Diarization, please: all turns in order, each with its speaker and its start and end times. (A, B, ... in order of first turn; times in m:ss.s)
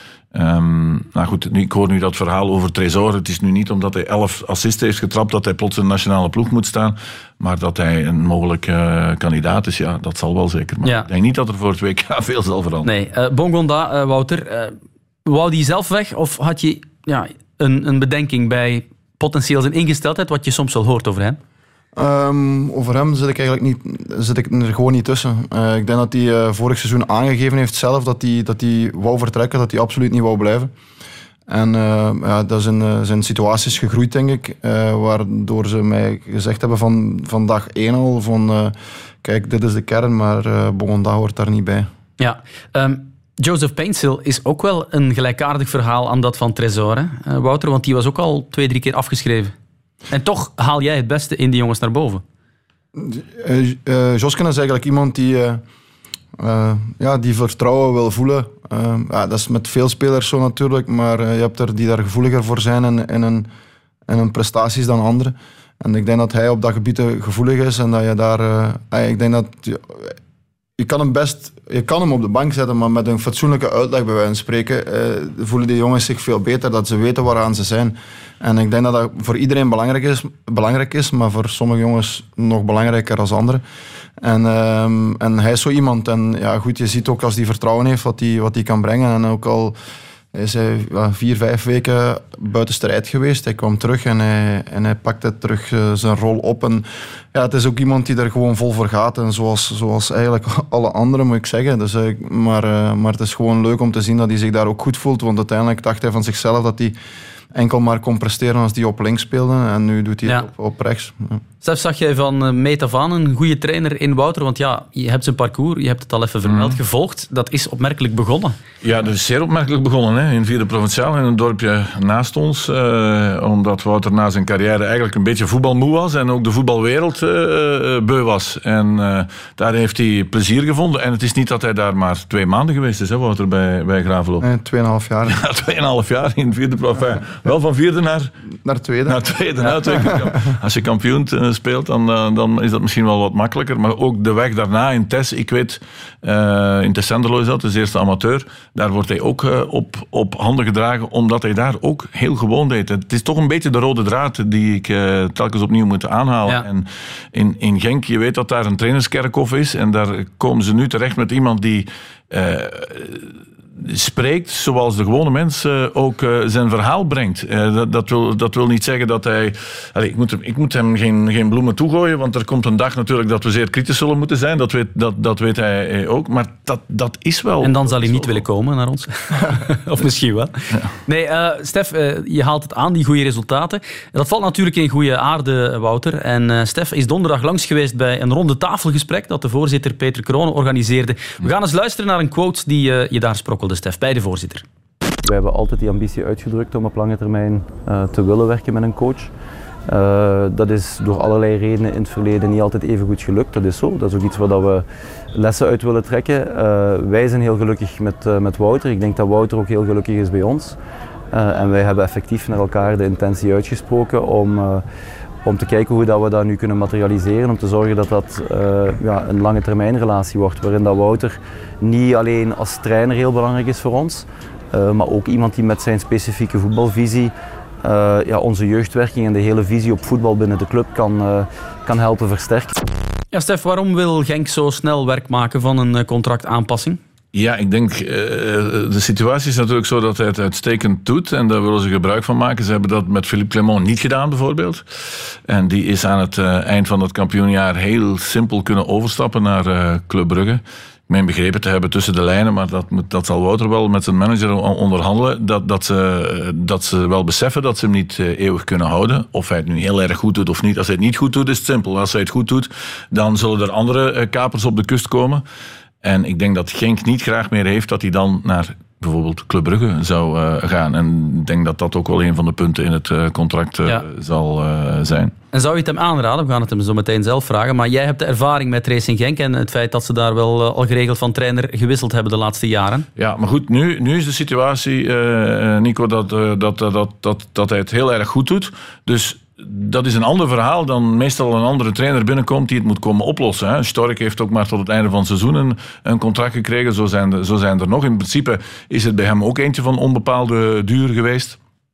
0:00.3-0:12.9 A
0:12.8-0:21.4 B
0:22.0-0:30.7 C
0:31.5-0:41.9 C
0:42.2-0:49.5 B
0:50.1-0:52.2 B
0:53.0-0:55.6 C
0:56.4-1:03.5 C
1:04.1-1:10.2 C
1:10.8-1:23.6 C
1:24.2-1:29.8 C
1:30.3-1:47.0 C
1:47.5-1:51.4 C
1:51.6-1:58.6 B
1:56.5-1:56.8 A
1:58.8-2:14.5 A
2:14.4-2:15.4 C
2:15.3-2:18.3 A
2:18.6-2:20.4 C
2:19.1-2:58.4 A
2:57.6-3:00.5 B
3:01.1-3:14.6 B
3:15.2-3:19.3 D
3:19.9-3:30.8 D
3:31.3-3:34.8 D
3:35.4-3:52.8 D
3:53.3-3:57.0 B
3:57.3-4:04.8 A
4:05.5-4:25.4 A
4:26.0-4:35.3 A
4:35.5-4:43.1 B
4:43.2-5:01.6 A